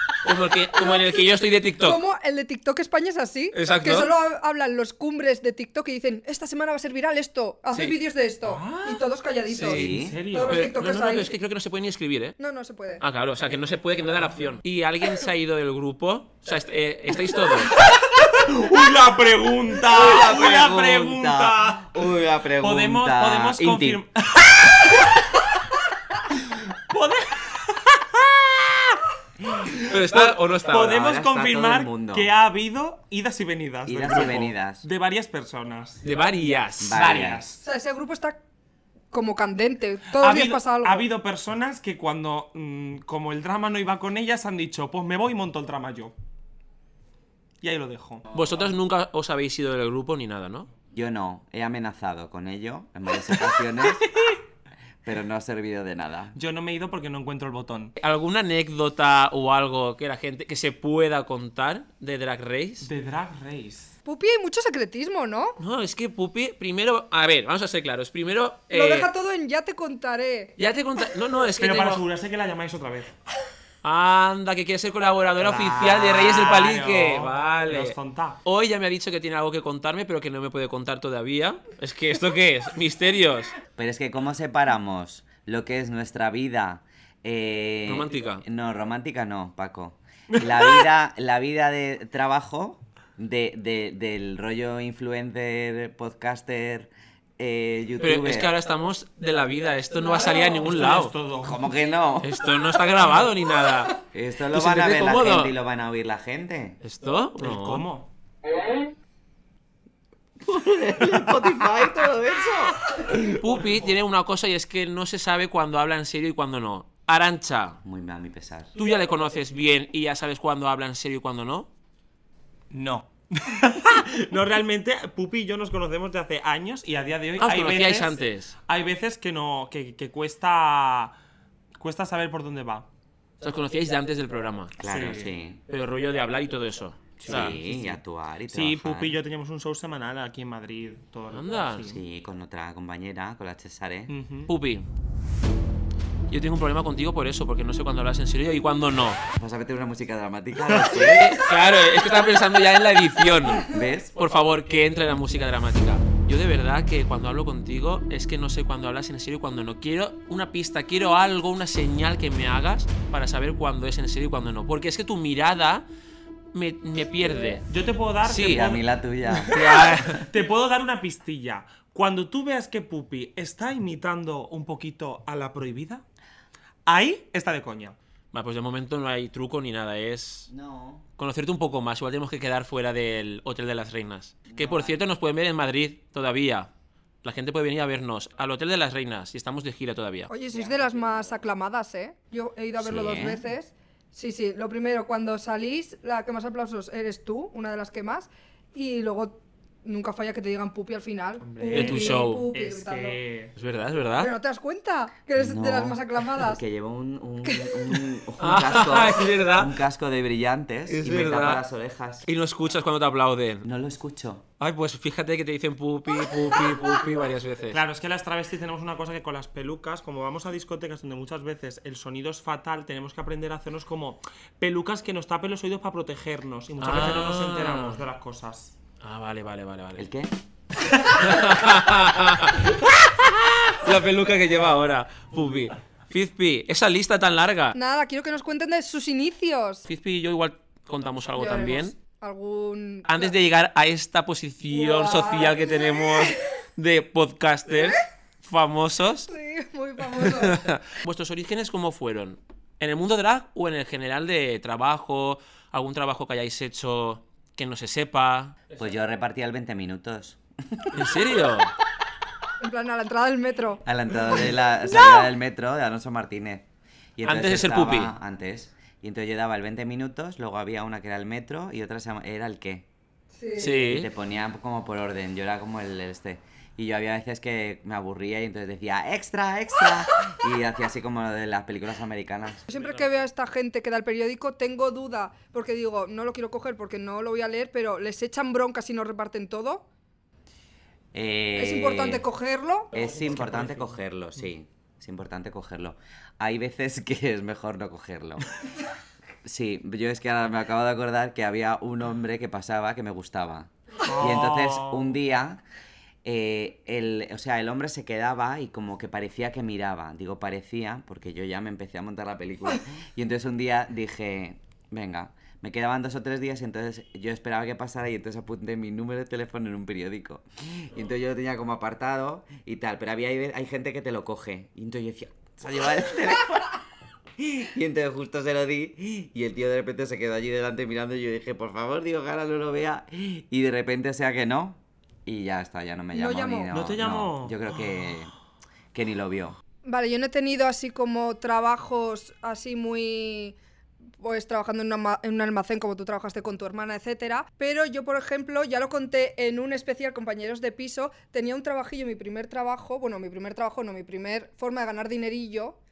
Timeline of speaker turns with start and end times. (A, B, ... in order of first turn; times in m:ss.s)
0:00.2-0:02.0 A
0:00.8-0:01.1 B
0:01.8-0:11.3 B
0:03.5-0:04.1 A
0:08.4-0:09.0 C
0:09.5-0:12.4 A
0:09.6-0:10.2 D
0:09.8-0:10.7 C
0:12.4-0:13.0 B
0:13.0-0:17.7 A
0:18.2-0:21.9 C
0:19.9-0:24.0 D
0:22.6-0:25.0 C
0:26.9-0:29.0 C
0:29.6-0:36.0 C
0:29.9-0:31.0 A
0:30.7-0:32.3 D
0:33.8-0:34.8 D
0:36.0-0:37.1 A
0:36.8-0:37.4 D
0:36.9-0:37.6 C
0:37.6-0:38.4 B
0:39.1-0:41.1 B
0:40.1-0:46.1 C
0:47.6-0:48.3 C
0:48.3-0:50.7 A
0:50.9-0:54.1 D
0:55.0-0:56.3 D
0:56.3-0:58.0 C
0:58.0-1:02.9 A
1:02.8-1:03.9 C
1:04.0-1:05.6 B
1:05.6-1:09.1 A
1:08.7-1:10.5 B
1:10.6-1:12.0 A
1:11.6-1:13.1 C
1:13.8-1:23.5 A
1:15.4-1:18.4 C
1:23.8-1:38.5 D
1:27.8-1:28.4 A
1:30.4-1:30.8 C
1:38.0-1:41.1 A
1:40.1-1:40.6 B
1:40.6-1:41.6 C
1:41.4-1:42.3 D
1:42.2-1:43.9 A
1:44.1-1:46.8 D
1:44.5-1:45.5 A
1:46.8-1:47.8 A
1:47.4-1:48.1 C
1:50.4-1:53.2 D
1:53.1-1:57.8 A
1:57.8-1:58.7 D
1:58.8-2:01.7 A
2:02.7-2:11.1 C
2:07.4-2:08.5 A
2:11.8-2:12.9 C
2:13.4-2:14.8 A
2:14.8-2:15.6 D
2:14.8-2:15.3 C
2:15.7-2:17.6 A
2:17.2-2:22.0 C
2:17.3-2:19.2 D
2:21.3-2:21.9 A
2:21.8-2:24.1 D
2:24.1-2:24.5 C
2:24.5-2:24.9 A
2:26.3-2:29.2 A
2:29.4-2:31.4 D
2:30.7-2:31.0 C
2:31.1-2:45.9 A
2:33.6-2:34.1 D
2:46.5-2:47.6 A
2:47.7-2:48.8 C
2:48.2-2:48.6 A
2:48.3-2:49.5 D
2:49.3-2:56.0 C
2:49.5-2:50.2 A
2:56.8-2:58.0 C
2:58.3-3:00.5 A
3:00.5-3:01.0 D
3:01.2-3:06.7 A
3:04.5-3:05.0 D
3:07.2-3:10.3 A
3:10.3-3:23.2 B
3:10.5-3:11.4 D
3:12.8-3:13.4 D
3:21.4-3:23.5 C
3:21.7-3:22.5 A
3:23.6-3:24.3 A
3:24.2-3:26.6 B
3:25.4-3:32.3 D
3:28.4-3:29.8 A
3:30.9-3:31.6 A
3:32.2-3:33.6 A
3:33.6-3:34.4 D
3:34.6-3:37.8 A
3:37.7-3:48.7 C
3:46.8-3:48.0 A
3:49.0-3:50.1 A
3:50.0-3:50.3 D
3:51.0-3:57.7 A
3:57.7-3:59.8 B
3:59.9-4:01.9 A
4:01.4-4:03.3 B
4:03.1-4:09.3 A
4:04.7-4:06.4 B
4:09.3-4:10.6 B
4:10.1-4:18.8 A
4:18.8-4:20.9 D
4:20.9-4:21.7 A
4:22.6-4:23.8 B
4:23.8-4:32.9 D
4:27.2-4:28.1 A
4:33.4-4:33.9 B
4:33.6-4:34.1 A
4:33.8-4:42.6 D
4:42.7-4:49.8 B
4:42.7-4:43.1 A
4:51.1-4:52.2 D
4:51.5-4:52.9 B
4:52.9-4:53.9 A
4:52.9-4:58.5 D
4:59.4-5:05.6 D
5:04.0-5:05.1 C
5:06.2-5:26.8 D
5:27.4-5:38.3 D
5:36.1-5:36.7 B
5:36.7-5:37.6 C
5:38.9-5:39.6 D
5:39.8-5:43.6 B
5:44.2-5:55.8 B